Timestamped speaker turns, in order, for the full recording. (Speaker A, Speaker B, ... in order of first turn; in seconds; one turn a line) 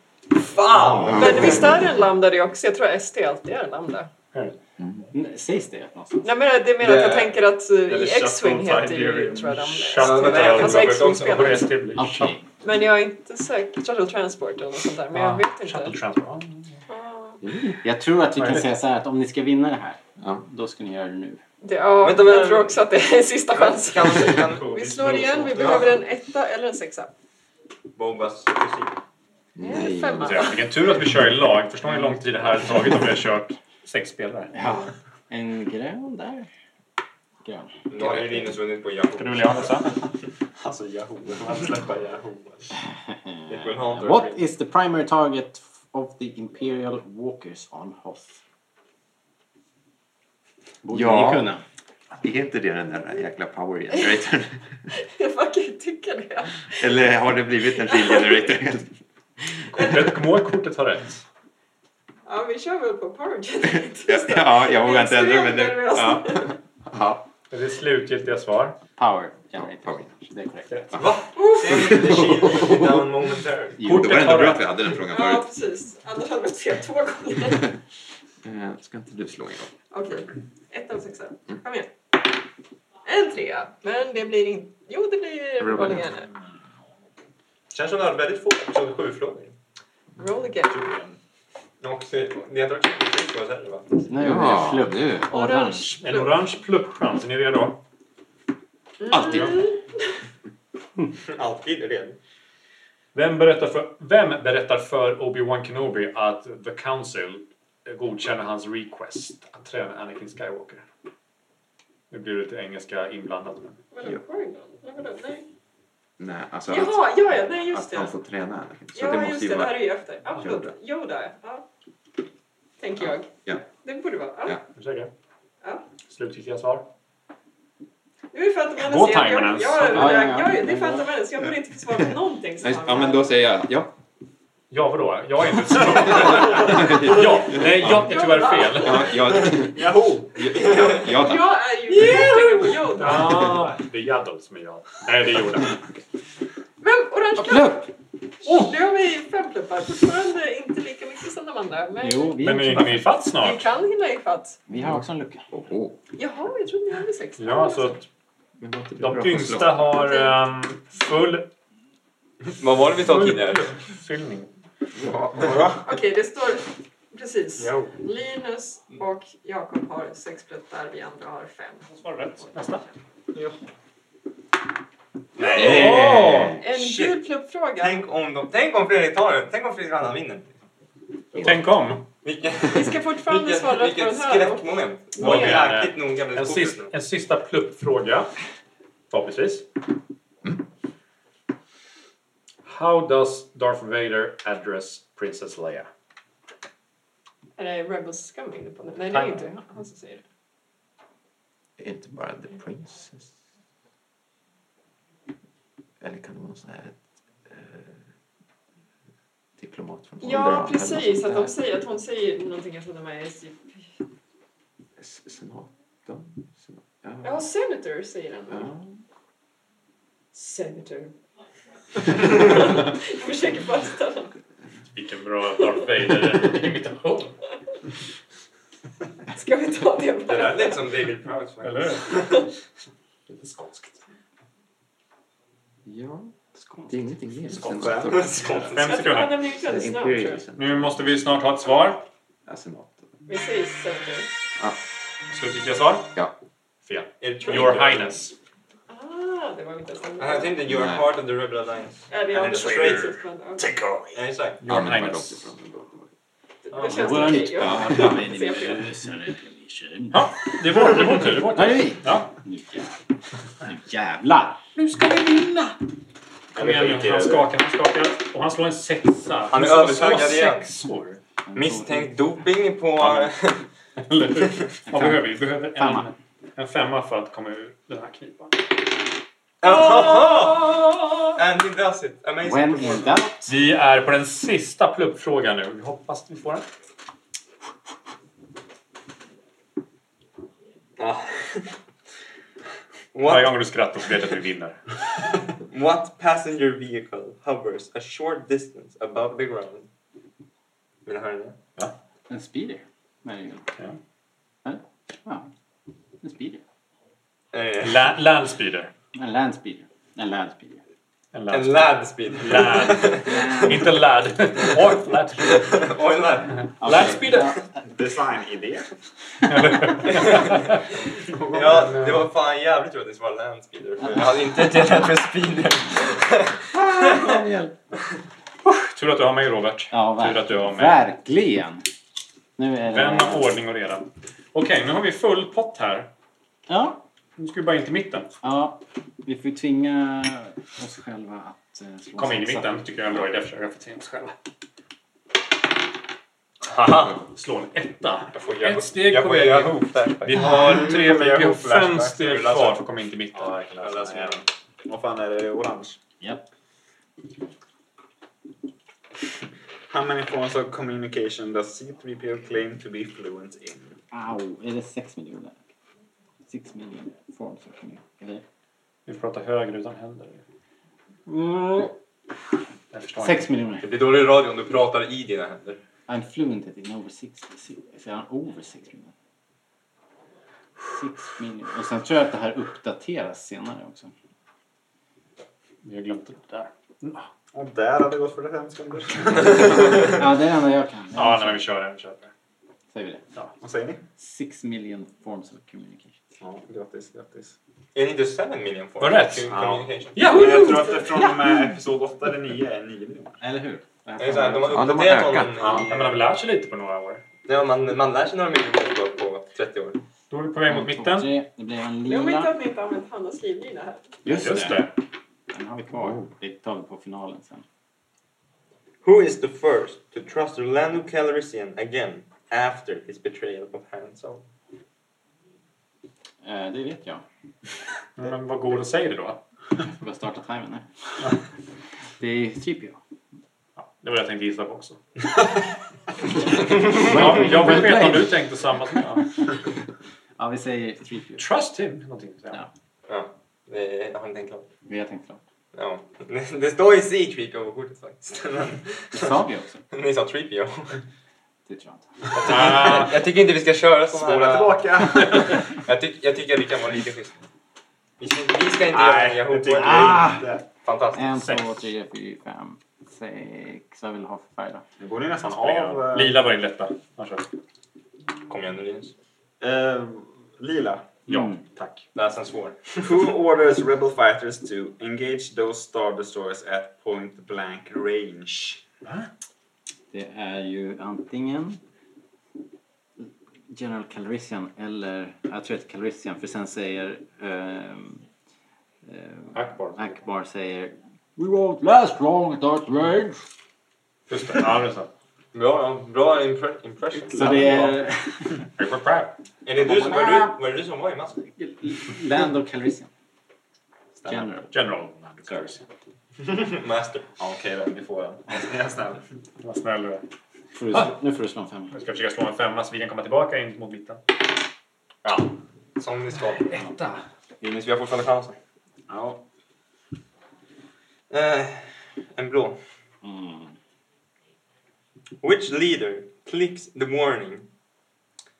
Speaker A: 0.4-1.6
Speaker B: 1.0-1.9
Speaker C: 1.1-4.1
Speaker D: 5.1-6.4
Speaker C: 6.2-11.7
Speaker A: 6.8-7.4
Speaker E: 7.9-10.1
Speaker F: 9.8-12.4
Speaker A: 10.0-11.7
Speaker D: 11.9-12.4
Speaker C: 12.6-16.0
Speaker F: 15.1-16.8
Speaker C: 16.9-17.4
Speaker B: 17.4-17.8
Speaker D: 17.8-21.4
Speaker F: 18.4-18.7
Speaker B: 20.2-20.4
Speaker C: 21.6-27.1
Speaker A: 22.0-22.8
Speaker A: 23.5-24.8
Speaker E: 24.2-25.9
Speaker A: 25.6-25.9
Speaker A: 27.9-29.0
Speaker B: 29.6-30.6
Speaker C: 29.6-30.7
Speaker F: 30.2-34.5
Speaker D: 34.5-36.5
Speaker D: 37.4-38.3
Speaker A: 37.9-39.5
Speaker F: 39.1-40.0
Speaker E: 40.6-42.7
Speaker D: 43.1-48.4
Speaker A: 43.5-44.4
Speaker D: 50.8-51.6
Speaker B: 50.9-51.5
Speaker B: 52.2-54.6
Speaker C: 54.9-58.6
Speaker B: 56.7-58.9
Speaker C: 59.7-60.1
Speaker F: 59.7-61.2
Speaker C: 62.2-66.5
Speaker B: 63.6-67.3
Speaker F: 67.5-68.8
Speaker D: 69.0-70.8
Speaker B: 69.5-70.3
Speaker F: 70.7-70.9
Speaker A: 71.0-73.8
Speaker C: 71.3-72.2
Speaker B: 71.9-72.7
Speaker B: 73.8-75.5
Speaker F: 73.8-74.8
Speaker C: 75.1-77.7
Speaker B: 78.4-79.7
Speaker C: 79.9-81.9
Speaker C: 83.0-86.3
Speaker B: 85.6-86.1
Speaker A: 87.7-89.5
Speaker C: 90.2-90.8
Speaker E: 90.7-91.2
Speaker A: 91.8-94.1
Speaker D: 94.1-95.9
Speaker B: 94.2-95.3
Speaker C: 95.3-96.4
Speaker F: 95.9-97.8
Speaker C: 99.0-100.2
Speaker F: 99.2-99.5
Speaker A: 101.2-102.2
Speaker F: 103.1-110.8
Speaker F: 112.1-113.8
Speaker C: 113.9-115.5
Speaker B: 116.2-120.7
Speaker C: 116.7-118.2
Speaker C: 118.9-121.6
Speaker C: 122.8-124.6
Speaker B: 123.0-123.7
Speaker F: 124.7-125.1
Speaker C: 125.6-125.9
Speaker F: 126.1-126.9
Speaker C: 128.3-133.4
Speaker F: 128.8-130.3
Speaker D: 129.9-131.1
Speaker B: 132.6-133.9
Speaker F: 134.7-139.1
Speaker B: 136.5-138.2
Speaker C: 137.8-139.6
Speaker B: 138.7-142.4
Speaker E: 139.7-140.4
Speaker C: 140.5-143.4
Speaker F: 142.9-145.8
Speaker C: 146.8-147.9
Speaker D: 147.4-147.8
Speaker F: 148.4-148.7
Speaker C: 148.4-152.4
Speaker D: 152.0-153.1
Speaker F: 152.4-153.7
Speaker C: 153.4-154.6
Speaker D: 154.7-155.5
Speaker B: 154.7-156.0
Speaker C: 156.2-158.0
Speaker F: 157.4-158.0
Speaker B: 158.6-160.0
Speaker F: 159.0-161.5
Speaker C: 159.9-160.3
Speaker A: 162.5-163.7
Speaker F: 163.0-164.5
Speaker E: 165.0-166.0
Speaker C: 165.8-172.9
Speaker E: 167.6-167.9
Speaker F: 171.9-172.8
Speaker A: 175.4-176.0
Speaker B: 175.5-176.6
Speaker F: 175.6-176.6
Speaker C: 176.6-178.0
Speaker A: 176.7-177.2
Speaker A: 177.8-180.6
Speaker B: 181.4-181.6
Speaker F: 181.4-182.1
Speaker A: 182.2-186.9
Speaker C: 182.7-185.7
Speaker F: 185.2-188.3
Speaker F: 189.1-189.7
Speaker F: 192.7-195.9
Speaker C: 197.6-200.2
Speaker B: 201.8-203.3
Speaker B: 206.0-208.0
Speaker B: 209.6-211.6
Speaker C: 210.2-213.7
Speaker B: 215.0-217.5
Speaker C: 217.2-218.7
Speaker B: 218.5-218.9
Speaker C: 220.3-221.1
Speaker C: 222.1-224.3
Speaker F: 224.9-227.4
Speaker C: 229.3-230.9
Speaker A: 230.2-232.4
Speaker F: 231.6-232.4
Speaker C: 232.1-232.4
Speaker F: 233.3-234.0
Speaker B: 235.8-238.8
Speaker E: 237.7-238.1
Speaker A: 237.9-239.0
Speaker F: 238.7-239.4
Speaker C: 238.8-240.4
Speaker B: 239.4-241.6
Speaker F: 240.5-242.1
Speaker B: 242.4-243.1
Speaker C: 243.3-244.3
Speaker F: 245.3-246.1
Speaker F: 246.8-248.3
Speaker A: 247.2-248.2
Speaker C: 248.9-250.6
Speaker A: 250.2-253.2
Speaker B: 250.6-251.1
Speaker C: 252.1-253.6
Speaker A: 254.1-254.6
Speaker F: 254.6-255.5
Speaker B: 254.6-256.1
Speaker C: 256.6-258.9
Speaker D: 256.8-260.3
Speaker B: 257.5-258.3
Speaker F: 260.1-262.3
Speaker D: 261.5-263.0
Speaker D: 263.6-264.6
Speaker F: 264.8-265.7
Speaker E: 266.5-267.5
Speaker F: 266.6-271.2
Speaker A: 269.5-270.7
Speaker D: 271.5-272.1
Speaker A: 271.5-273.6
Speaker F: 274.0-278.6
Speaker D: 274.9-276.1
Speaker A: 279.6-283.2
Speaker C: 279.6-281.3
Speaker D: 282.4-283.5
Speaker F: 283.5-286.6
Speaker A: 291.0-291.7
Speaker A: 293.1-293.6
Speaker F: 293.2-294.8
Speaker A: 295.6-299.9
Speaker A: 301.1-301.6
Speaker D: 302.3-303.7
Speaker D: 304.6-305.5
Speaker D: 306.2-306.6
Speaker A: 307.5-308.1
Speaker F: 307.8-308.9
Speaker D: 309.1-310.8
Speaker F: 311.3-315.8
Speaker A: 311.5-313.6
Speaker D: 313.2-313.9
Speaker A: 315.4-316.7
Speaker F: 316.6-317.6
Speaker D: 316.8-317.8
Speaker E: 317.9-318.9
Speaker F: 319.4-320.8
Speaker A: 320.1-320.6
Speaker E: 321.2-321.9
Speaker A: 321.5-327.4
Speaker F: 321.7-322.2
Speaker D: 324.0-324.3
Speaker D: 326.7-327.7
Speaker F: 328.6-331.0
Speaker D: 329.9-331.8
Speaker D: 332.6-333.5
Speaker F: 332.9-336.1
Speaker D: 336.7-337.0
Speaker F: 337.4-338.3
Speaker D: 338.4-343.1
Speaker F: 342.2-344.3
Speaker A: 346.7-347.2
Speaker F: 347.2-354.4
Speaker A: 348.3-352.8
Speaker A: 353.7-354.4
Speaker E: 354.9-356.0
Speaker D: 356.2-356.4
Speaker E: 359.9-364.0
Speaker D: 364.1-365.6
Speaker D: 366.5-368.4
Speaker F: 369.1-370.4
Speaker D: 371.3-371.9
Speaker F: 372.9-373.5
Speaker D: 373.2-373.9
Speaker A: 373.8-375.8
Speaker D: 376.1-379.1
Speaker D: 380.8-384.1
Speaker F: 385.8-387.3
Speaker E: 387.5-390.0
Speaker D: 389.9-391.7
Speaker F: 391.1-392.3
Speaker D: 392.9-393.2
Speaker E: 393.6-394.0
Speaker D: 394.2-396.1
Speaker E: 396.4-397.5
Speaker A: 397.9-400.2
Speaker F: 399.0-400.9
Speaker E: 400.2-403.4
Speaker C: 400.2-401.0
Speaker D: 401.1-401.7
Speaker D: 403.4-405.0
Speaker A: 404.2-406.2
Speaker B: 404.7-405.8
Speaker F: 405.6-407.2
Speaker A: 407.4-410.0
Speaker F: 410.3-411.3
Speaker D: 410.6-412.5
Speaker C: 412.0-414.1
Speaker D: 414.2-414.9
Speaker F: 414.2-414.9
Speaker D: 415.5-417.6
Speaker A: 419.0-424.4
Speaker D: 426.4-427.2
Speaker F: 428.2-429.4
Speaker D: 429.9-430.9
Speaker D: 432.2-433.0
Speaker F: 433.8-435.0
Speaker F: 436.9-439.2
Speaker D: 436.9-438.4
Speaker D: 440.4-441.5
Speaker F: 441.4-442.6
Speaker A: 443.1-444.7
Speaker D: 444.9-445.4
Speaker A: 445.7-451.0
Speaker D: 449.1-449.8
Speaker D: 451.7-452.1
Speaker A: 452.3-457.4
Speaker F: 452.4-453.2
Speaker E: 454.1-455.6
Speaker A: 458.2-460.2
Speaker E: 458.9-460.6
Speaker D: 459.7-460.5
Speaker A: 460.8-461.3
Speaker D: 461.1-464.8
Speaker F: 461.4-461.8
Speaker E: 465.0-466.4
Speaker F: 465.5-467.4
Speaker A: 468.5-469.1
Speaker E: 469.6-471.1
Speaker F: 471.3-472.0
Speaker D: 471.3-471.6
Speaker A: 472.1-473.1
Speaker E: 473.0-478.8
Speaker D: 480.1-481.8
Speaker D: 483.2-488.2
Speaker D: 489.0-493.4
Speaker F: 489.5-490.1
Speaker F: 494.3-495.1
Speaker A: 495.5-497.9
Speaker D: 497.3-498.6
Speaker F: 498.8-499.3
Speaker A: 499.6-501.4
Speaker D: 499.8-500.6
Speaker D: 501.4-503.1
Speaker D: 504.2-504.8
Speaker F: 504.7-505.8
Speaker A: 506.4-507.3
Speaker E: 507.4-509.2
Speaker F: 509.6-510.2
Speaker D: 510.7-511.9
Speaker F: 511.9-514.2
Speaker A: 516.0-516.8
Speaker F: 516.7-517.2
Speaker A: 517.6-518.5
Speaker E: 519.1-519.4
Speaker A: 521.3-522.8
Speaker D: 523.2-523.7
Speaker A: 525.4-527.7